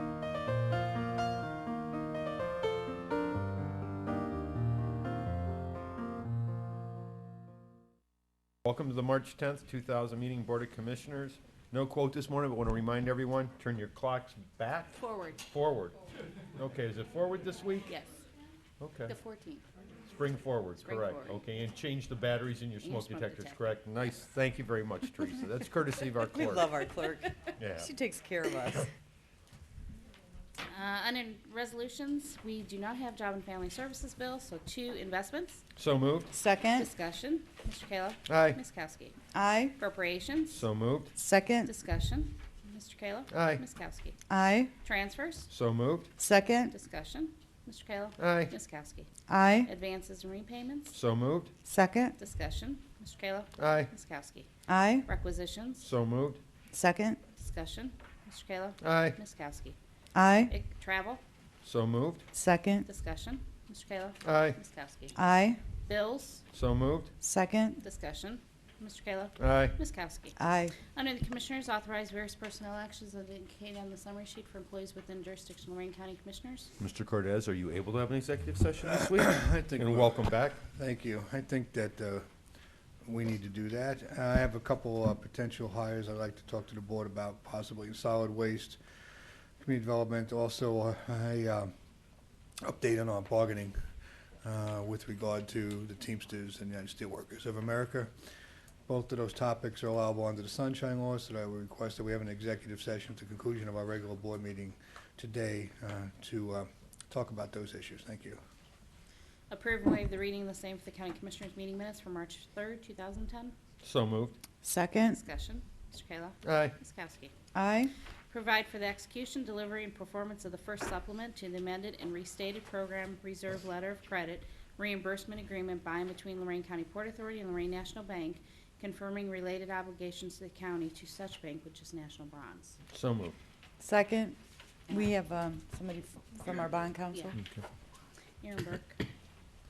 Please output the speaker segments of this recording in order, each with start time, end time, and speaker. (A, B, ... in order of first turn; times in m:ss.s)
0:08.6-0:15.9 A
0:15.0-0:15.4 B
0:16.6-0:17.9 A
0:17.9-0:18.2 B
0:18.8-0:19.1 A
0:19.1-0:19.6 B
0:20.1-0:26.8 A
0:20.8-0:21.4 B
0:22.8-0:23.6 B
0:26.3-0:28.9 C
0:27.6-0:27.9 A
0:30.7-0:35.6 B
0:35.8-0:36.3 A
0:36.3-0:36.9 C
0:36.7-0:39.2 B
0:38.3-0:38.6 A
0:39.3-0:39.7 C
0:39.8-0:40.6 B
0:40.5-0:41.1 A
0:41.1-0:41.7 C
0:41.6-0:44.2 B
0:43.3-0:43.6 A
0:44.3-0:44.7 C
0:44.8-0:45.5 B
0:45.5-0:46.1 A
0:46.2-0:46.7 C
0:46.7-0:49.1 B
0:48.2-0:48.5 A
0:49.3-0:49.7 C
0:49.6-0:50.9 B
0:50.9-0:51.5 A
0:51.6-0:52.1 C
0:52.2-0:54.5 B
0:53.6-0:53.9 A
0:54.7-0:55.0 C
0:55.0-0:55.8 B
0:55.8-0:56.4 A
0:56.7-0:57.2 C
0:57.4-0:59.8 B
0:58.8-0:59.2 A
1:00.1-1:00.5 C
1:00.5-1:01.2 B
1:01.6-1:02.2 A
1:02.3-1:02.8 C
1:02.8-1:05.2 B
1:04.2-1:04.6 A
1:05.1-1:05.6 C
1:05.9-1:06.4 B
1:06.5-1:07.1 A
1:07.2-1:07.8 C
1:07.8-1:10.4 B
1:09.4-1:09.8 A
1:10.4-1:10.7 C
1:10.9-1:16.7 B
1:16.8-1:20.6 A
1:18.8-1:22.2 D
1:23.0-1:28.8 D
1:29.6-1:31.7 D
1:32.6-1:33.8 D
1:34.4-1:38.1 D
1:38.9-1:48.4 D
1:49.5-1:53.6 B
1:53.8-1:54.4 A
1:54.6-1:55.2 C
1:55.0-1:57.3 B
1:56.4-1:56.7 A
1:57.5-1:57.9 C
1:58.3-2:12.8 B
2:12.9-2:13.4 A
2:13.8-2:14.4 C
2:14.9-2:15.1 B
2:14.9-2:17.4 C
2:17.3-2:17.6 A
2:18.4-2:19.0 B